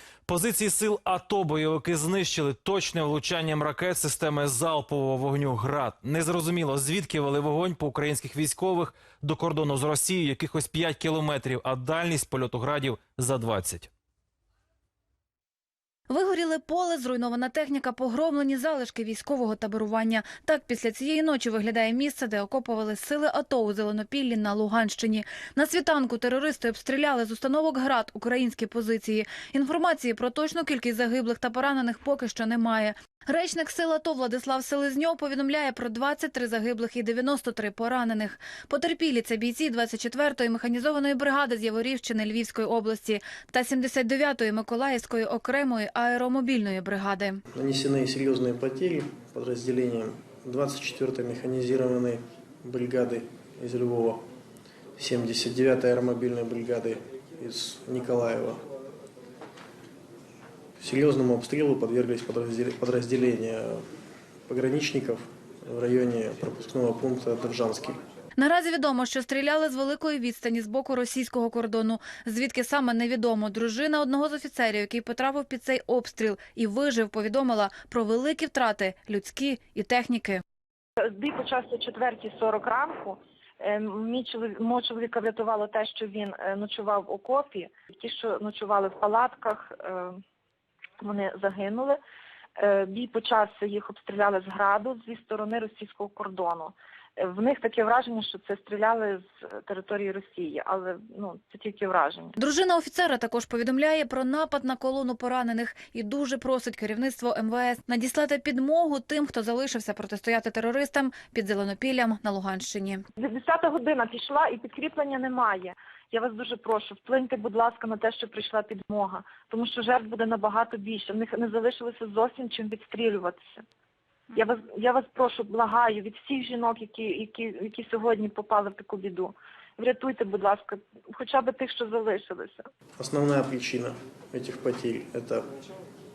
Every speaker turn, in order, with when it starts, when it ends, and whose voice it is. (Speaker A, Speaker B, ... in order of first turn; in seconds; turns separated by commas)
Speaker A: 0.3-13.9, Speaker B: 16.1-47.4, Speaker C: 47.5-54.3, Speaker C: 55.0-58.6, Speaker C: 60.8-63.8, Speaker C: 64.5-68.0, Speaker B: 68.4-80.4, Speaker D: 81.0-90.2, Speaker D: 91.0-92.0, Speaker D: 92.6-102.3, Speaker B: 102.4-113.0, Speaker D: 113.2-123.6, Speaker D: 124.3-132.7, Speaker C: 133.0-135.5